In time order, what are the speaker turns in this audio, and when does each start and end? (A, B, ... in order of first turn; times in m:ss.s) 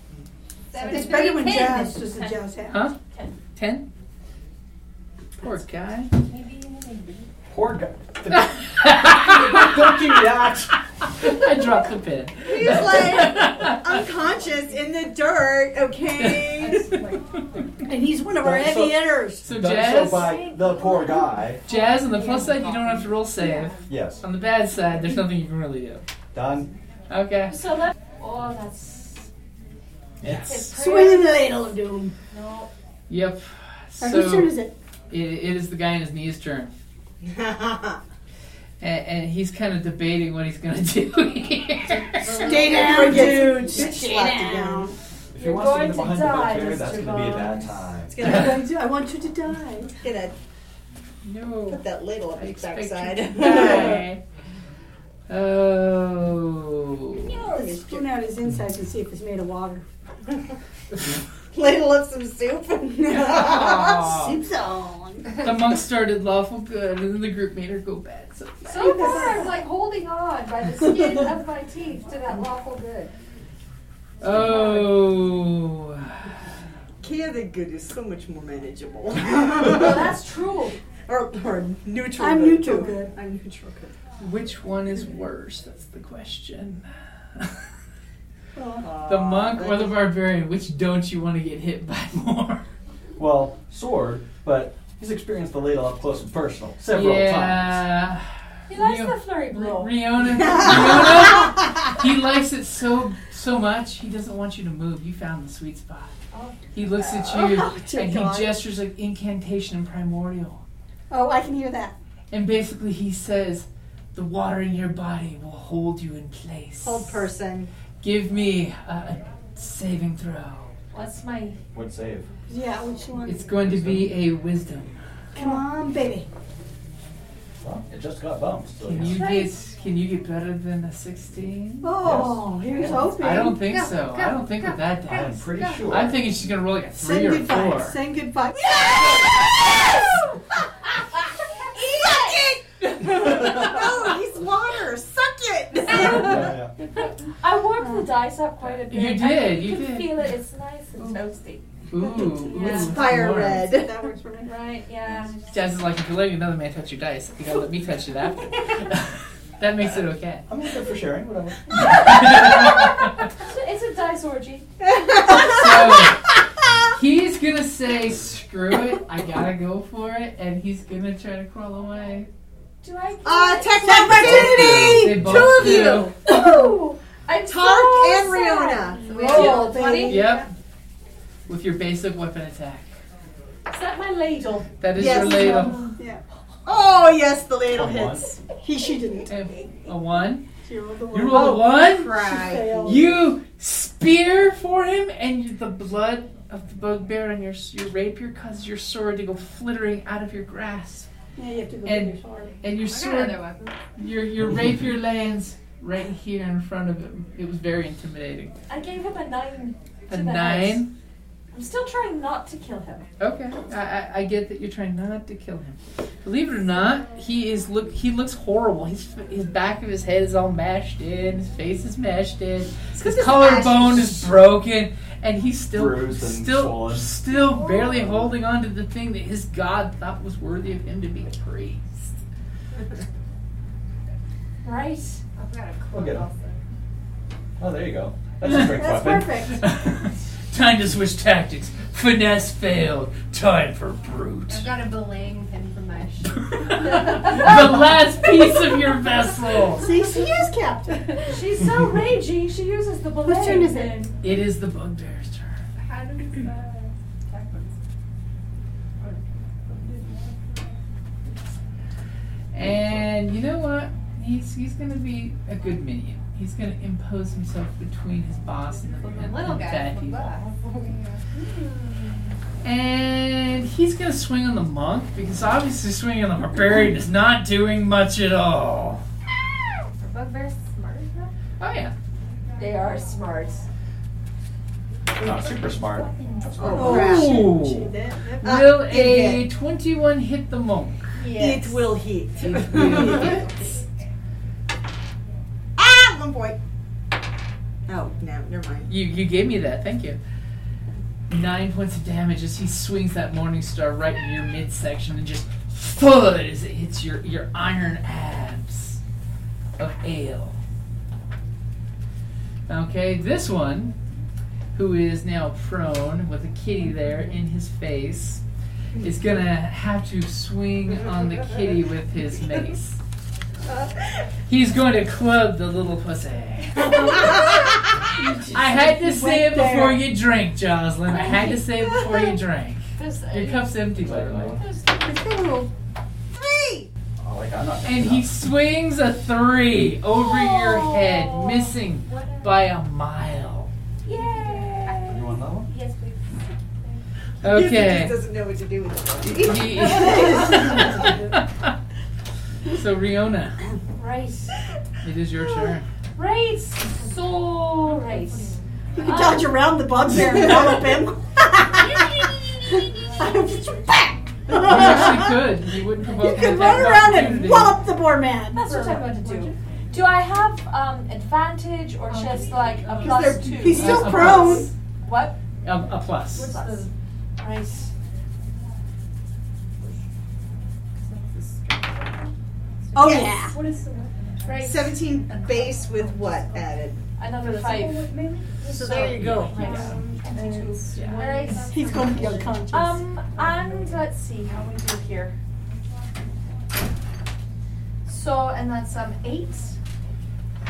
0:00.7-0:02.0 A
0:00.7-0:02.4 B
0:00.7-0:02.8 C
0:02.7-0:03.0 D
0:03.0-0:03.4 B
0:03.6-0:03.9 D
0:05.4-0:06.1 D
0:06.1-0:07.3 A
0:07.5-0:10.8 E
0:08.4-0:10.3 D
0:11.0-0:14.0 D
0:12.4-0:16.9 F
0:16.2-0:16.8 D
0:16.6-0:17.2 A
0:17.8-0:19.5 C
0:18.4-0:21.6 E
0:19.4-0:20.4 D
0:20.0-0:21.8 B
0:21.6-0:26.0 D
0:21.8-0:23.8 A
0:23.9-0:24.2 E
0:26.3-0:26.7 E
0:27.1-0:27.6 D
0:27.5-0:29.3 B
0:30.2-0:30.7 D
0:30.2-0:30.6 E
0:30.4-0:31.3 B
0:30.7-0:32.1 C
0:32.3-0:32.7 B
0:33.1-0:34.6 D
0:34.0-0:34.7 C
0:35.1-0:36.7 D
0:37.2-0:38.0 F
0:38.8-0:42.4 D
0:42.2-0:44.9 C
0:42.3-0:44.9 F
0:45.3-0:48.3 E
0:45.4-0:47.9 B
0:48.1-0:48.7 F
0:48.2-0:49.9 C
0:50.0-0:50.4 F
0:51.2-0:51.8 D
0:51.7-0:54.0 F
0:52.3-0:54.2 D
0:53.5-0:54.1 B
0:55.3-0:57.3 D
0:57.3-0:58.1 F
0:57.5-0:59.8 C
1:01.5-1:04.2 F
1:03.1-1:04.4 D
1:04.0-1:05.5 C
1:05.4-1:09.1 D
1:08.7-1:13.1 B
1:08.8-1:09.5 C
1:14.2-1:16.3 D
1:14.3-1:14.7 F
1:14.3-1:15.0 B
1:17.0-1:20.2 F
1:19.5-1:20.8 B
1:21.1-1:24.0 F
1:22.1-1:23.1 C
1:24.2-1:27.6 D
1:28.6-1:29.0 C
1:28.8-1:30.0 F
1:29.1-1:32.6 D
1:33.2-1:37.9 E
1:36.9-1:46.1 D
1:38.7-1:40.3 B
1:46.3-1:46.7 B
1:46.7-1:50.6 D
1:47.2-1:48.6 C
1:51.1-1:52.0 C
1:52.3-1:57.2 D
1:56.8-1:57.7 F
1:58.0-2:00.7 D
2:00.9-2:01.6 B
2:01.7-2:02.3 E
2:02.5-2:03.6 C
2:03.2-2:04.9 D
2:03.6-2:04.1 E
2:05.3-2:06.3 C
2:07.6-2:09.3 E
2:08.8-2:12.0 D
2:09.0-2:09.5 B
2:11.8-2:13.7 C
2:12.0-2:12.5 E
2:13.1-2:18.0 D
2:13.6-2:16.0 A
2:15.0-2:16.3 E
2:17.0-2:18.8 C
2:18.7-2:20.0 F
2:21.6-2:26.5 F
2:25.9-2:31.7 B
2:25.9-2:26.7 E
2:27.8-2:28.1 C
2:28.6-2:30.2 D
2:31.9-2:33.7 D
2:32.1-2:35.2 C
2:32.5-2:32.9 B
2:32.6-2:34.0 F
2:34.4-2:35.4 B
2:35.5-2:40.5 D
2:40.5-2:42.4 E
2:41.8-2:43.2 D
2:42.1-2:44.7 B
2:44.8-2:46.1 F
2:45.3-2:46.2 D
2:47.0-2:52.3 D
2:52.8-2:54.4 B
2:53.2-2:56.4 F
2:53.8-2:55.2 C
2:54.1-2:55.6 E
2:54.9-2:56.1 D
2:56.2-3:00.3 B
2:56.3-2:56.8 C
2:57.4-2:59.4 F
2:59.1-3:00.1 A
2:59.1-3:00.4 C
3:00.0-3:00.5 D
3:01.5-3:02.9 D
3:03.7-3:04.8 B
3:04.8-3:05.8 D
3:05.0-3:05.8 F
3:05.0-3:06.2 C
3:05.5-3:05.9 B
3:06.7-3:08.4 F
3:07.7-3:08.3 E
3:08.6-3:09.3 C
3:09.3-3:10.5 D
3:10.5-3:13.1 C
3:11.1-3:12.2 D
3:11.3-3:13.0 F
3:12.8-3:21.1 D
3:21.4-3:22.6 C
3:21.8-3:28.6 D
3:22.8-3:23.8 A
3:28.7-3:30.9 B
3:30.1-3:30.9 D
3:31.5-3:33.1 B
3:33.2-3:52.0 D
3:42.9-3:44.3 F
3:45.7-3:47.2 E
3:47.3-3:48.3 B
3:54.6-3:55.2 B
3:55.4-3:56.6 A
3:55.9-3:56.3 E
3:57.6-3:59.4 E
3:58.4-3:58.8 D
3:58.6-3:59.7 C
3:59.5-4:04.7 D
4:04.5-4:07.5 A
4:06.5-4:09.9 D
4:09.8-4:11.1 C
4:11.2-4:14.2 B
4:13.2-4:14.1 C
4:14.2-4:15.6 D
4:15.8-4:17.8 A
4:19.0-4:20.0 A
4:22.5-4:30.4 D
4:29.0-4:32.4 A
4:32.6-4:39.0 D
4:40.0-4:41.3 A
4:41.6-4:41.9 D
4:42.6-4:43.7 B
4:45.1-4:46.8 E
4:45.3-4:47.1 B
4:46.6-4:47.5 F
4:46.7-4:48.6 C
4:46.8-4:51.2 D
4:48.4-4:49.4 F
4:51.2-4:52.0 B
4:51.3-4:53.5 F
4:52.4-4:53.5 D
4:52.8-4:53.6 B
4:55.8-4:56.6 F
4:57.9-4:58.9 F
4:58.9-5:00.2 D
5:01.3-5:09.0 D
5:09.8-5:10.6 D
5:12.7-5:14.0 D
5:14.8-5:18.4 D
5:19.0-5:23.0 D
5:24.5-5:27.4 D
5:26.9-5:27.6 F
5:28.1-5:30.0 C
5:28.5-5:34.6 D
5:31.1-5:32.4 B
5:33.0-5:33.9 B
5:34.0-5:34.6 E
5:34.6-5:35.1 B
5:35.0-5:35.7 C
5:36.3-5:36.9 F
5:37.2-5:38.3 E
5:37.8-5:43.7 D
5:40.2-5:42.6 B
5:44.0-5:47.0 B
5:44.1-5:45.2 A
5:45.1-5:45.7 E
5:47.4-5:48.2 D
5:47.4-5:50.9 F
5:49.2-5:51.7 D
5:49.9-5:51.2 C
5:52.7-5:53.6 D
5:54.0-5:54.6 B
5:55.0-5:55.8 D
5:55.4-5:59.6 B
5:56.9-5:58.6 A
5:59.0-6:05.5 C
6:01.7-6:03.8 B
6:04.6-6:07.8 D
6:06.1-6:08.7 C
6:08.5-6:15.4 B
6:08.6-6:09.5 A
6:12.1-6:13.7 A
6:13.0-6:14.1 F
6:13.5-6:14.7 C
6:13.7-6:14.7 D
6:15.6-6:16.5 D
6:16.3-6:17.9 B
6:16.4-6:16.9 A
6:21.0-6:22.3 B
6:21.0-6:22.3 A
6:22.9-6:24.4 A
6:23.0-6:23.6 C
6:23.0-6:25.7 B
6:23.0-6:23.4 F
6:24.6-6:27.0 F
6:27.2-6:35.4 B
6:27.4-6:32.6 A
6:28.7-6:29.9 F
6:29.0-6:30.0 D
6:29.8-6:30.5 C
6:31.0-6:31.2 D
6:31.6-6:33.0 C
6:33.3-6:34.0 A
6:38.1-6:39.8 B